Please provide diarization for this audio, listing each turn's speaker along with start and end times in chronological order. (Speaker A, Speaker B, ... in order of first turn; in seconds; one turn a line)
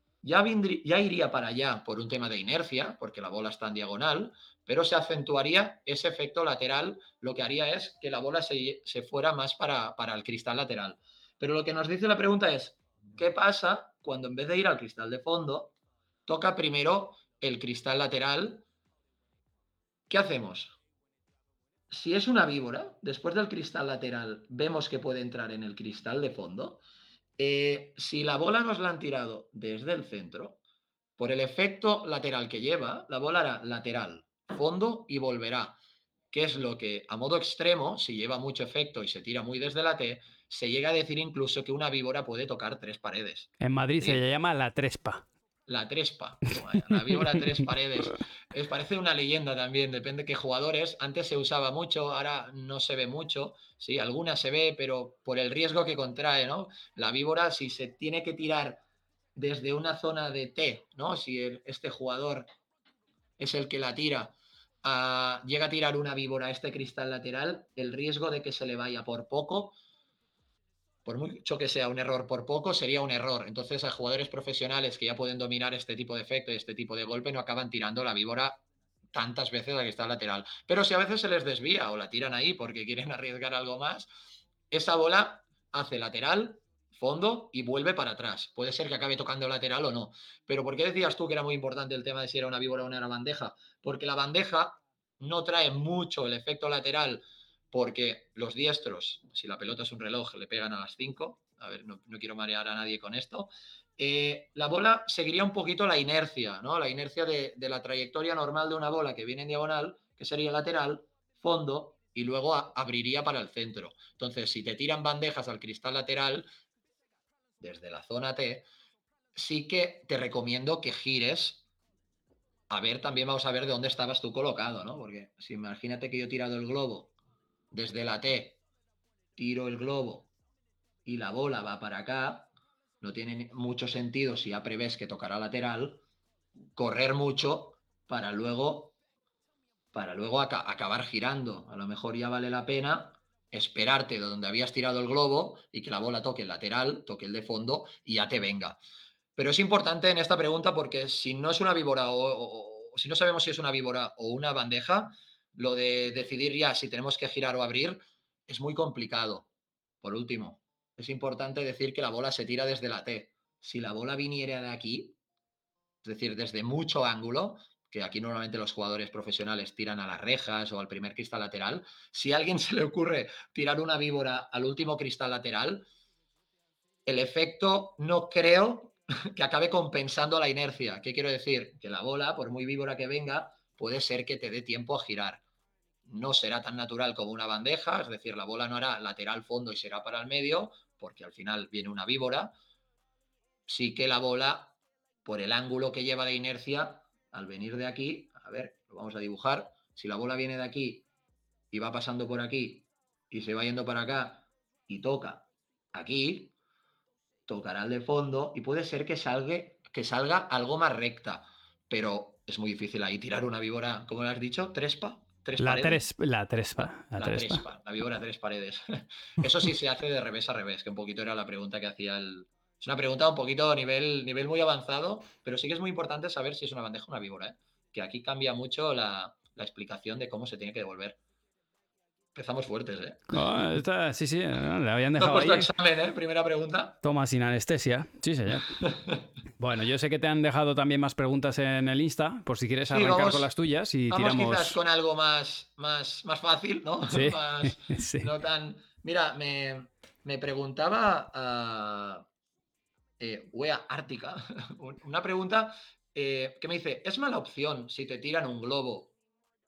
Speaker A: 0.2-15.7
Speaker A: 16.3-18.6
Speaker A: 20.1-20.8
Speaker A: 21.9-26.8
Speaker A: 27.4-30.6
Speaker A: 31.2-35.8
Speaker A: 36.3-44.2
Speaker B: 43.6-45.2
Speaker A: 45.7-58.8
Speaker B: 46.9-47.4
Speaker A: 59.4-62.5
Speaker A: 63.4-69.8
Speaker A: 71.0-84.1
Speaker A: 84.7-116.5
Speaker A: 117.6-118.7
Speaker A: 119.3-121.6
Speaker A: 122.7-127.1
Speaker A: 127.7-128.6
Speaker A: 129.3-130.3
Speaker A: 131.0-132.5
Speaker A: 133.0-136.0
Speaker A: 136.8-138.9
Speaker A: 139.9-148.8
Speaker A: 149.3-159.5
Speaker A: 160.0-165.2
Speaker A: 166.0-175.8
Speaker A: 177.1-185.4
Speaker A: 186.1-192.5
Speaker A: 193.7-201.1
Speaker A: 201.7-206.5
Speaker A: 207.5-216.0
Speaker B: 215.6-217.6
Speaker A: 216.8-231.2
Speaker A: 232.3-233.3
Speaker B: 233.3-235.7
Speaker A: 235.2-237.0
Speaker B: 237.0-238.7
Speaker A: 238.8-239.2
Speaker B: 239.6-244.8
Speaker A: 242.9-243.5
Speaker A: 244.1-252.2
Speaker B: 247.1-248.3
Speaker A: 253.2-259.1